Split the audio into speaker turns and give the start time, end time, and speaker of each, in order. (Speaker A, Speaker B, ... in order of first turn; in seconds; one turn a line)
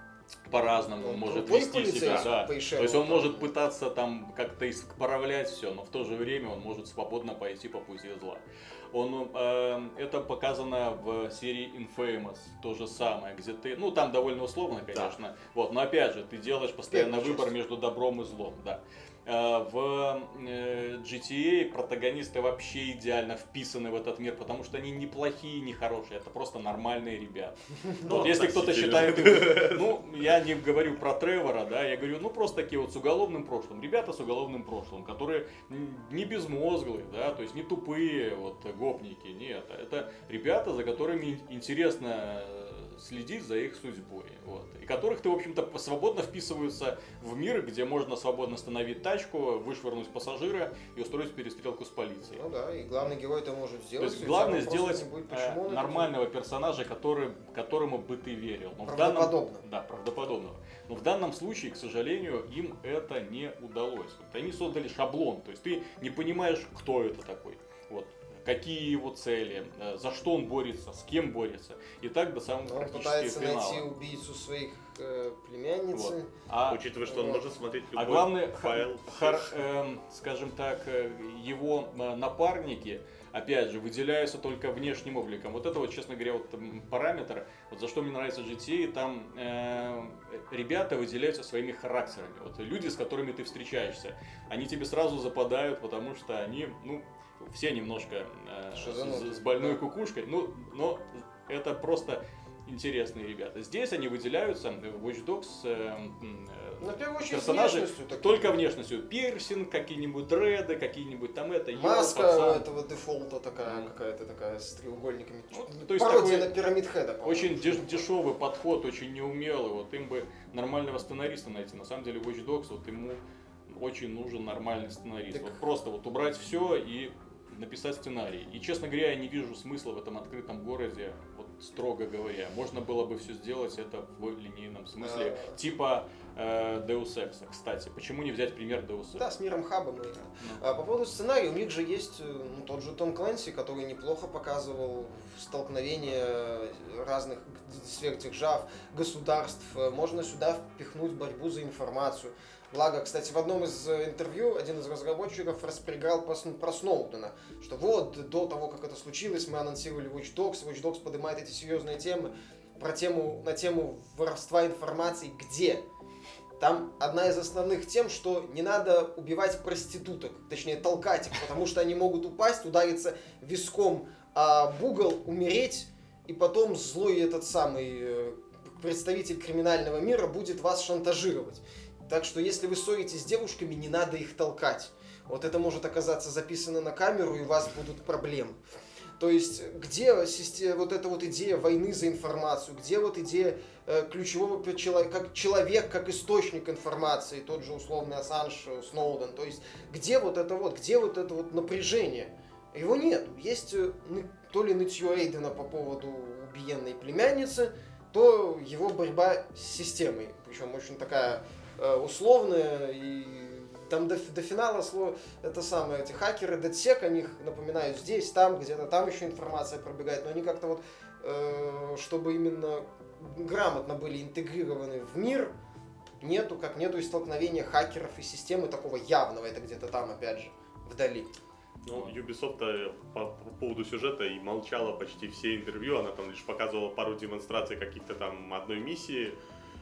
Speaker A: 0.5-52.4
Speaker B: 1.0-3.5
Speaker B: 16.9-17.6
Speaker C: 28.0-29.9
Speaker B: 52.3-56.1
Speaker A: 54.0-73.9
Speaker B: 58.9-59.6
Speaker B: 72.6-76.3
Speaker A: 75.9-76.8
Speaker C: 76.7-79.6
Speaker B: 77.0-77.4
Speaker A: 78.0-112.7
Speaker B: 98.7-99.8
Speaker B: 106.8-108.6
Speaker B: 111.8-118.1
Speaker A: 113.6-113.9
Speaker A: 115.5-116.5
Speaker A: 117.2-139.3
Speaker B: 125.3-125.6
Speaker B: 135.0-135.6
Speaker B: 139.2-165.8
Speaker B: 166.6-188.6
Speaker B: 189.2-225.5
Speaker B: 226.2-231.3
Speaker C: 231.8-239.4